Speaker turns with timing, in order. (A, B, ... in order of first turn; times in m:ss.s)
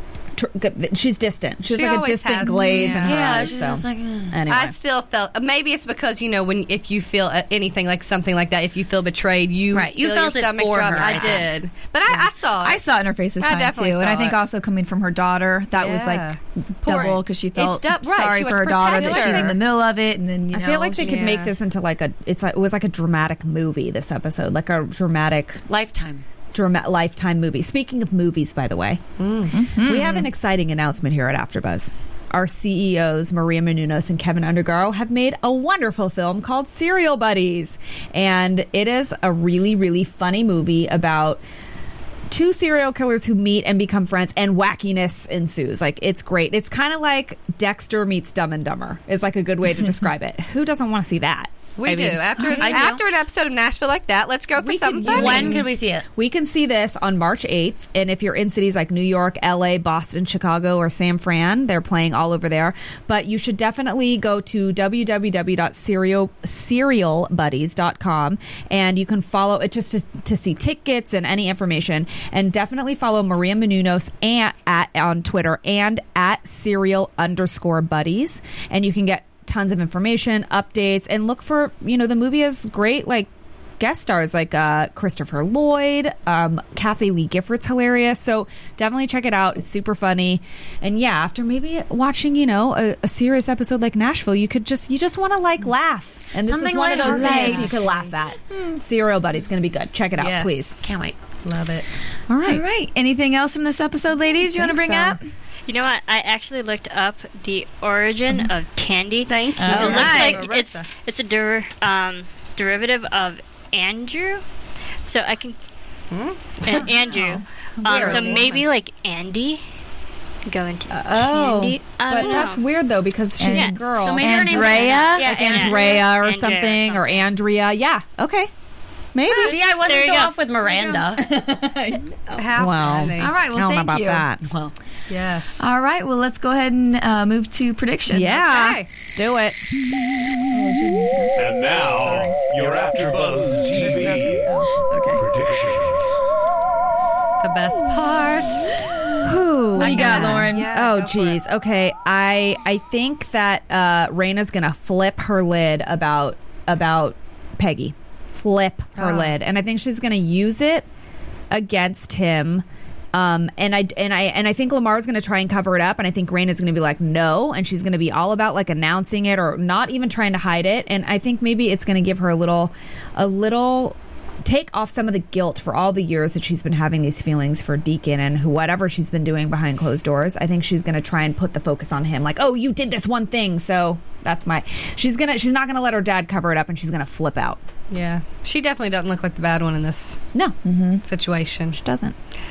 0:00.4-0:04.8 A
0:01.7-0:03.4 B
0:02.4-0:03.0 C
0:03.0-0:04.4 D
0:04.5-0:12.8 B
0:09.7-0:11.5 D
0:12.1-0:16.2 C
0:13.4-0:14.4 B
0:15.8-0:19.6 B
0:16.8-0:21.2 C
0:18.9-0:19.6 A
0:20.5-0:25.6 A
0:21.0-0:21.5 B
0:25.7-0:26.2 D
0:26.5-0:29.0 A
0:29.2-0:29.5 B
0:29.5-0:30.3 C
0:29.8-0:41.4 A
0:42.3-0:52.8 A
0:51.8-0:55.6 B
0:52.4-0:53.0 D
0:54.6-1:40.8 A
0:55.1-0:56.0 D
1:36.4-1:38.0 D
1:37.0-1:37.8 C
1:40.2-1:40.8 B
1:40.8-1:41.2 D
1:41.4-1:41.9 B
1:42.3-1:42.6 A
1:42.4-1:45.2 C
1:44.5-1:45.2 A
1:45.7-1:54.4 E
1:49.3-1:50.9 B
1:49.6-1:50.4 A
1:49.7-1:50.4 C
1:55.0-1:55.6 E
1:56.1-1:56.6 B
1:56.6-1:59.6 E
1:56.7-1:57.2 A
1:57.8-1:58.6 A
1:57.9-1:58.5 B
2:00.5-2:02.6 E
2:00.9-2:08.5 A
2:03.4-2:05.6 C
2:04.0-2:06.1 D
2:05.4-2:07.2 E
2:09.1-2:09.6 A
2:09.3-2:11.4 D
2:09.3-2:10.4 E
2:11.2-2:12.1 C
2:12.3-2:13.4 B
2:12.5-2:14.4 A
2:13.2-2:14.2 C
2:14.4-2:14.7 D
2:15.1-2:15.7 B
2:15.6-2:18.4 C
2:18.1-2:19.6 A
2:18.3-2:18.9 B
2:20.5-2:21.5 C
2:21.4-2:24.5 F
2:24.1-2:25.2 C
2:25.1-2:26.2 F
2:27.4-2:28.7 B
2:29.2-2:40.9 A
2:29.8-2:30.7 C
2:29.8-2:31.4 B
2:39.0-2:39.3 B
2:41.5-3:07.6 A
3:07.9-3:10.2 B
3:10.6-3:11.0 C
3:11.0-3:11.8 B
3:11.7-3:12.1 A